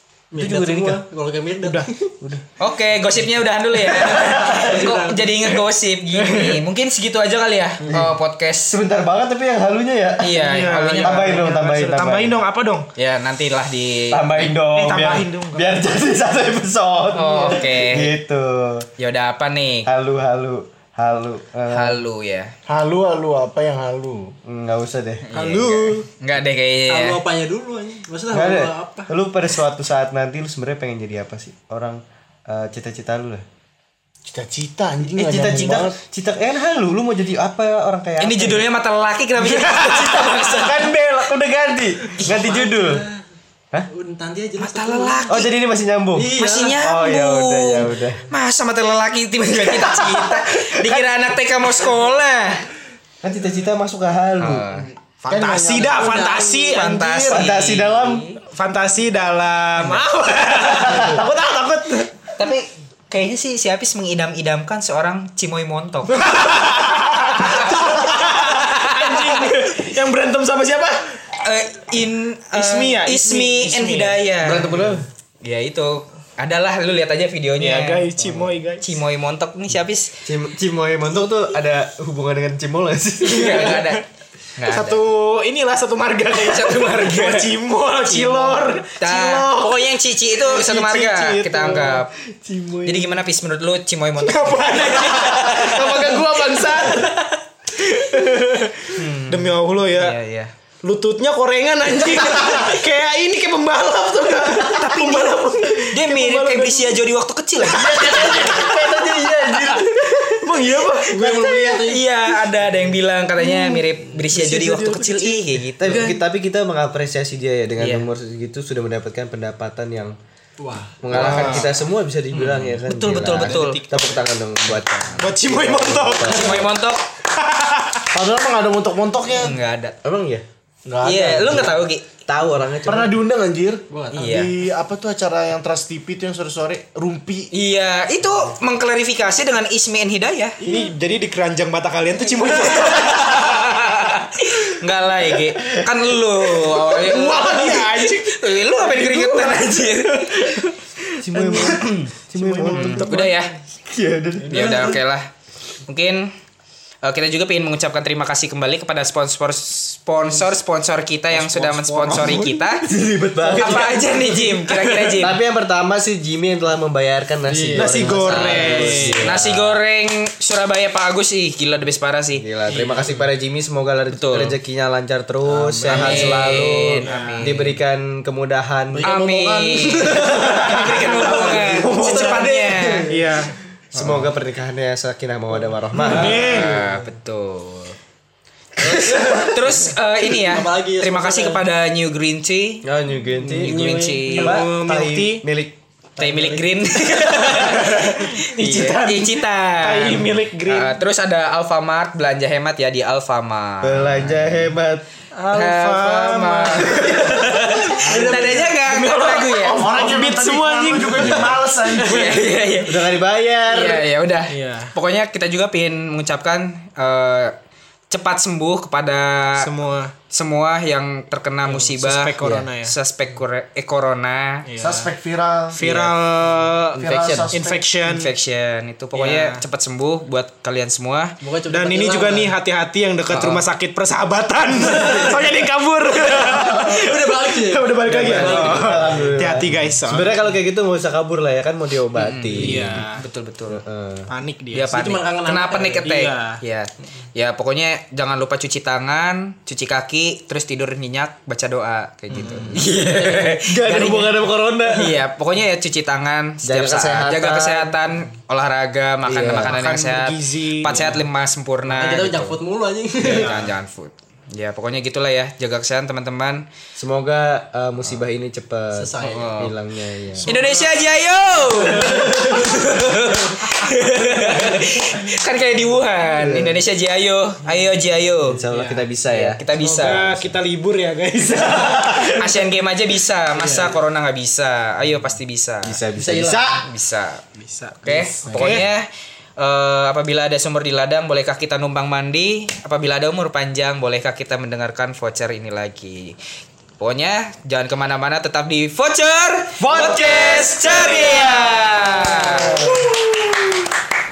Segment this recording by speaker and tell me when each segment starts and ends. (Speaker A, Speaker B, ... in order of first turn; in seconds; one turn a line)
Speaker A: 0.3-1.9
Speaker B: 0.3-1.0
Speaker C: 1.6-1.9
Speaker D: 2.6-8.8
Speaker B: 3.9-4.9
Speaker A: 4.1-5.3
Speaker C: 6.2-6.6
Speaker B: 7.8-10.5
Speaker D: 10.2-11.4
Speaker C: 10.4-12.9
Speaker B: 11.0-12.4
Speaker D: 13.0-14.5
Speaker B: 14.1-18.9
Speaker C: 14.6-15.8
Speaker D: 17.1-18.1
Speaker D: 19.0-19.9
Speaker B: 19.9-22.0
Speaker D: 21.7-22.5
Speaker E: 22.7-24.4
Speaker B: 24.4-25.3
Speaker D: 25.3-27.2
Speaker C: 25.3-26.1
Speaker A: 26.9-29.1
Speaker B: 28.3-33.4
Speaker E: 34.3-36.0
Speaker B: 35.0-38.6
Speaker D: 38.2-40.9
Speaker C: 39.5-40.5
Speaker B: 39.8-43.0
Speaker A: 42.2-43.2
Speaker A: 43.9-45.3
Speaker D: 44.6-45.6
Speaker B: 45.3-48.2
Speaker A: 46.1-46.8
Speaker D: 46.2-52.7
Speaker B: 50.5-51.1
Speaker B: 53.2-54.7
Speaker D: 54.4-54.9
Speaker C: 55.2-57.5
Speaker E: 55.3-56.2
Speaker A: 55.9-56.8
Speaker D: 56.7-58.4
Speaker B: 57.3-58.3
Speaker C: 58.5-62.1
Speaker D: 62.4-69.5
Speaker C: 66.1-71.2
Speaker D: 71.4-78.2
Speaker C: 72.5-74.2
Speaker B: 74.4-75.1
Speaker C: 77.6-78.9
Speaker D: 78.8-80.2
Speaker B: 80.2-83.8
Speaker D: 83.2-84.0
Speaker C: 83.3-84.0
Speaker D: 84.6-85.0
Speaker C: 84.6-93.2
Speaker D: 86.4-87.5
Speaker D: 88.1-92.1
Speaker D: 92.8-96.2
Speaker C: 94.2-100.2
Speaker D: 99.0-100.5
Speaker C: 100.8-107.0
Speaker D: 102.0-102.6
Speaker D: 104.7-108.7
Speaker C: 107.6-111.9
Speaker B: 107.7-109.9
Speaker D: 109.8-110.3
Speaker A: 111.1-112.1
Speaker D: 111.8-116.2
Speaker C: 113.4-116.1
Speaker B: 115.8-120.2
Speaker D: 117.8-118.1
Speaker A: 120.6-121.0
Speaker B: 121.0-126.7
Speaker D: 121.1-121.7
Speaker C: 121.1-121.7
Speaker D: 122.3-124.0
Speaker C: 123.3-124.2
Speaker D: 124.8-125.3
Speaker C: 125.2-126.7
Speaker D: 126.2-127.0
Speaker C: 127.3-128.1
Speaker E: 128.1-129.6
Speaker D: 129.3-130.0
Speaker B: 130.0-130.4
Speaker E: 130.9-131.8
Speaker D: 131.0-132.1
Speaker B: 132.2-133.1
Speaker E: 132.8-137.5
Speaker A: 133.9-134.4
Speaker D: 134.1-134.6
Speaker D: 137.5-140.6
Speaker C: 140.6-143.9
Speaker D: 142.8-150.6
Speaker C: 146.6-153.6
Speaker B: 151.2-153.2
Speaker D: 151.6-152.1
Speaker D: 152.6-153.5
Speaker B: 153.9-155.0
Speaker C: 154.4-155.0
Speaker D: 154.5-155.3
Speaker D: 155.9-156.3
Speaker D: 157.0-162.8
Speaker C: 161.3-162.9
Speaker B: 162.9-169.8
Speaker C: 163.4-164.9
Speaker D: 163.6-165.4
Speaker C: 167.5-169.4
Speaker D: 167.7-172.4
Speaker B: 172.4-179.1
Speaker C: 172.7-173.3
Speaker D: 174.1-174.6
Speaker C: 175.5-177.6
Speaker D: 175.9-177.8
Speaker E: 179.0-180.4
Speaker D: 179.0-183.1
Speaker A: 179.7-183.1
Speaker C: 180.1-182.4
Speaker C: 183.1-183.5
Speaker D: 183.9-184.3
Speaker B: 183.9-186.7
Speaker C: 185.9-187.0
Speaker D: 186.0-188.0
Speaker A: 188.8-191.6
Speaker D: 188.8-192.8
Speaker B: 192.8-195.8
Speaker A: 193.4-194.8
Speaker D: 193.6-194.7
Speaker C: 194.2-195.5
Speaker D: 196.2-204.7
Speaker A: 196.2-196.7
Speaker C: 197.0-201.0
Speaker B: 203.8-205.1
Speaker C: 205.3-212.8
Speaker D: 205.5-209.9
Speaker A: 208.0-208.8
Speaker E: 209.7-211.8
Speaker D: 212.0-217.6
Speaker B: 212.8-214.1
Speaker C: 214.5-214.9
Speaker D: 218.1-219.7
Speaker C: 219.6-220.1
Speaker D: 220.3-224.7
Speaker C: 221.6-222.9
Speaker C: 224.7-225.1
Speaker E: 224.8-225.8
Speaker C: 225.7-228.3
Speaker E: 226.9-227.8
Speaker B: 227.0-227.6
Speaker D: 228.1-231.3
Speaker C: 229.1-229.6
Speaker A: 231.4-232.5
Speaker C: 231.7-240.4
Speaker D: 233.3-233.6
Speaker A: 234.9-235.3
Speaker A: 236.2-239.3
Speaker B: 238.1-243.0
Speaker D: 242.2-243.8
Speaker C: 242.6-243.2
Speaker B: 243.7-244.3
Speaker C: 244.3-244.9
Speaker D: 244.7-262.6
Speaker A: 244.9-246.2
Speaker C: 246.0-246.6
Speaker C: 252.3-252.9
Speaker B: 252.3-255.2
Speaker B: 256.6-257.9
Speaker B: 259.3-259.8
Speaker C: 259.5-261.2
Speaker A: 261.9-263.6
Speaker D: 263.2-266.6
Speaker C: 263.2-263.8
Speaker B: 267.0-270.5
Speaker A: 268.9-269.6
Speaker D: 269.3-269.8
Speaker C: 270.3-271.1
Speaker D: 270.4-278.6
Speaker C: 271.6-272.8
Speaker C: 273.6-274.8
Speaker B: 276.4-276.8
Speaker B: 278.4-279.6
Speaker C: 278.7-279.1
Speaker D: 279.3-280.4
Speaker C: 279.7-282.7
Speaker D: 282.0-286.0
Speaker C: 283.5-284.0
Speaker B: 285.9-286.9
Speaker A: 286.1-286.9
Speaker D: 286.8-287.4
Speaker C: 287.6-288.9
Speaker D: 288.0-296.4
Speaker B: 288.5-288.9
Speaker D: 297.0-302.9
Speaker B: 299.8-303.5